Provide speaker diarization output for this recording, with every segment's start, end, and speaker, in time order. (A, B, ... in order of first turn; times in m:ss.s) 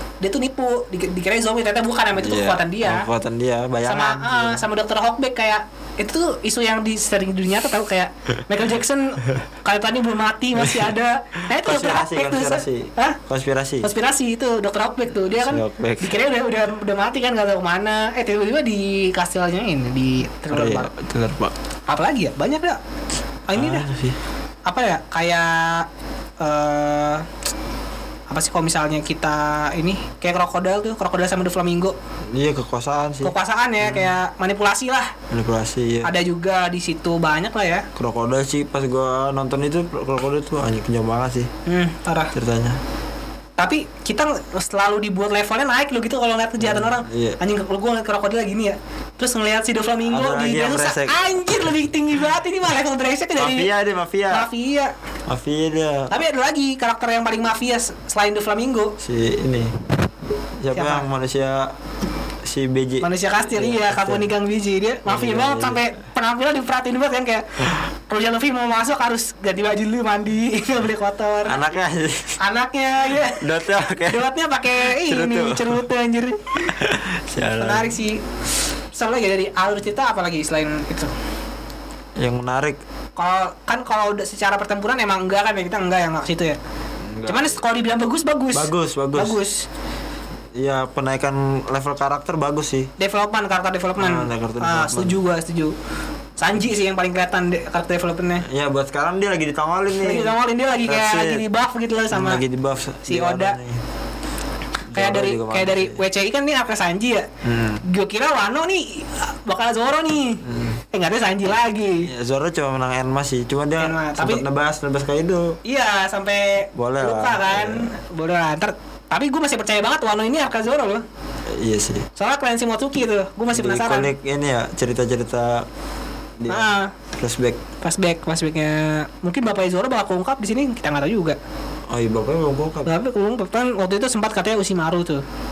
0:00.2-0:03.1 A
0:02.2-0:04.6 B
0:03.8-0:13.2 A
0:10.6-0:10.9 B
0:11.5-0:13.9 B
0:13.8-0:20.9 A
0:15.3-0:16.2 B
0:20.5-0:21.6 B
0:21.9-0:22.8 A
0:23.5-0:23.9 A
0:23.5-0:24.2 B
0:24.7-0:25.9 A
0:26.4-0:27.3 A
0:28.3-0:32.0 A
0:32.3-0:34.1 B
0:33.2-0:35.1 A
0:35.3-0:36.1 B
0:36.0-0:37.9 A
0:38.0-0:41.5 B
0:41.7-0:42.3 A
0:42.3-0:42.8 B
0:43.6-0:53.7 A
0:46.6-0:47.4 B
0:50.0-0:51.4 B
0:53.4-0:54.5 B
0:54.3-0:54.9 A
0:55.3-0:56.1 B
0:56.1-0:59.0 A
0:59.0-0:59.8 B
1:00.6-1:01.8 B
1:00.7-1:01.1 A
1:02.4-1:04.3 B
1:03.0-1:11.6 A
1:05.1-1:05.8 B
1:11.4-1:12.4 B
1:12.4-1:13.5 A
1:13.4-1:14.3 B
1:14.0-1:16.7 A
1:14.8-1:15.8 B
1:16.7-1:18.0 B
1:17.6-1:18.2 A
1:18.9-1:21.1 A
1:22.2-1:22.8 B
1:23.2-1:26.6 A
1:27.0-1:27.6 B
1:27.2-1:29.7 A
1:28.5-1:29.4 B
1:30.6-1:32.9 B
1:33.0-1:35.7 A
1:34.0-1:35.2 B
1:36.4-1:38.4 A
1:38.4-1:41.4 B
1:40.0-1:42.4 A
1:42.1-1:43.8 B
1:43.1-1:43.6 A
1:44.9-1:46.0 B
1:44.9-1:47.3 A
1:47.4-1:47.8 B
1:47.8-1:52.1 A
1:50.4-1:50.8 B
1:52.0-1:55.6 B
1:53.8-1:54.4 A
1:55.7-2:01.0 A
1:56.8-1:58.0 B
2:01.5-2:02.1 B
2:02.2-2:04.1 A
2:03.5-2:05.7 B
2:06.4-2:07.6 B
2:06.5-2:06.9 A
2:07.8-2:11.4 A
2:11.9-2:12.9 B
2:12.8-2:15.2 A